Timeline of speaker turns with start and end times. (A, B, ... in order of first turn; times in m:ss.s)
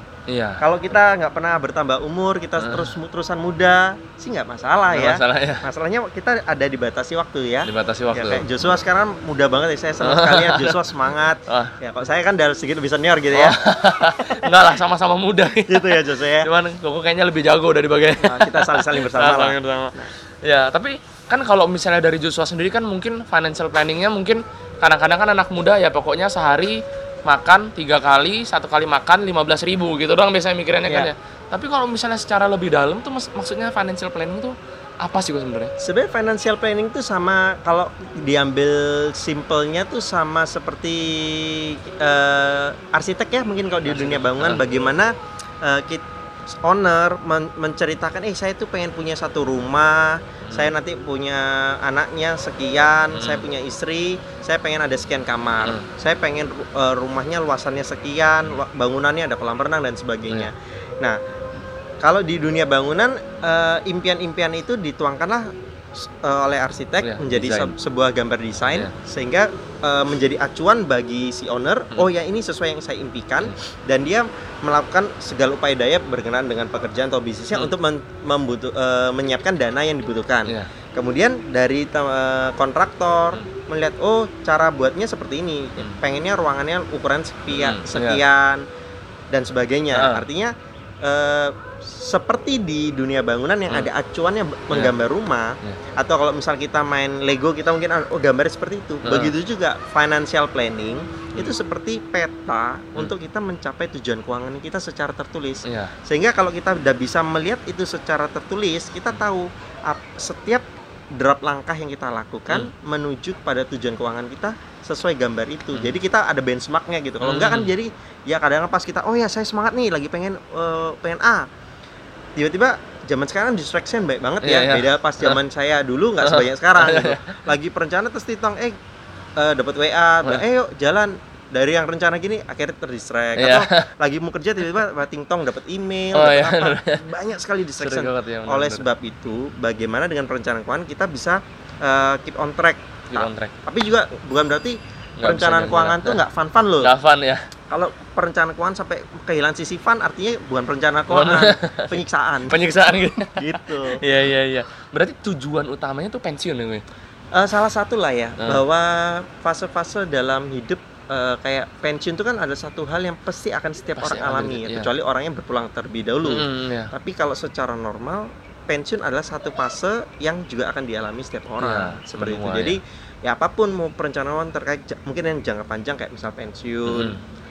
0:00.3-0:00.6 A
0:00.6-0:13.6 B
0:02.6-0:02.9 A
0:04.9-0:05.6 A
0:07.6-0:08.4 A
0:10.0-0:10.9 A
0:11.5-0:11.7 A
0:13.3-0:35.7 A
0:15.7-0:16.5 B
0:18.2-0:20.1 B
0:35.8-1:01.2 B
0:43.9-0:44.6 A
0:50.5-0:50.7 A
0:53.1-0:53.4 A
0:55.6-0:55.9 A
1:02.0-1:05.5 B
1:06.2-1:28.6 B
1:07.0-1:07.7 A
1:27.5-1:28.2 A
1:29.3-2:01.5 B
1:29.9-1:30.2 A
1:39.0-1:39.3 A
1:45.6-1:45.9 A
1:57.2-1:57.7 A
2:02.4-2:08.8 B
2:04.4-2:05.4 A
2:06.2-2:07.4 A
2:09.4-2:26.9 B
2:13.4-2:13.9 A
2:16.1-2:17.0 A
2:17.8-2:18.9 A
2:23.1-2:23.5 A
2:25.2-2:26.2 A
2:26.8-2:27.5 A
2:27.7-2:32.6 B
2:31.1-2:36.8 A
2:33.4-2:34.0 B
2:37.3-2:57.1 B
2:44.0-2:44.9 A
2:46.2-2:46.9 A
2:51.6-2:52.8 A
2:56.8-2:57.2 A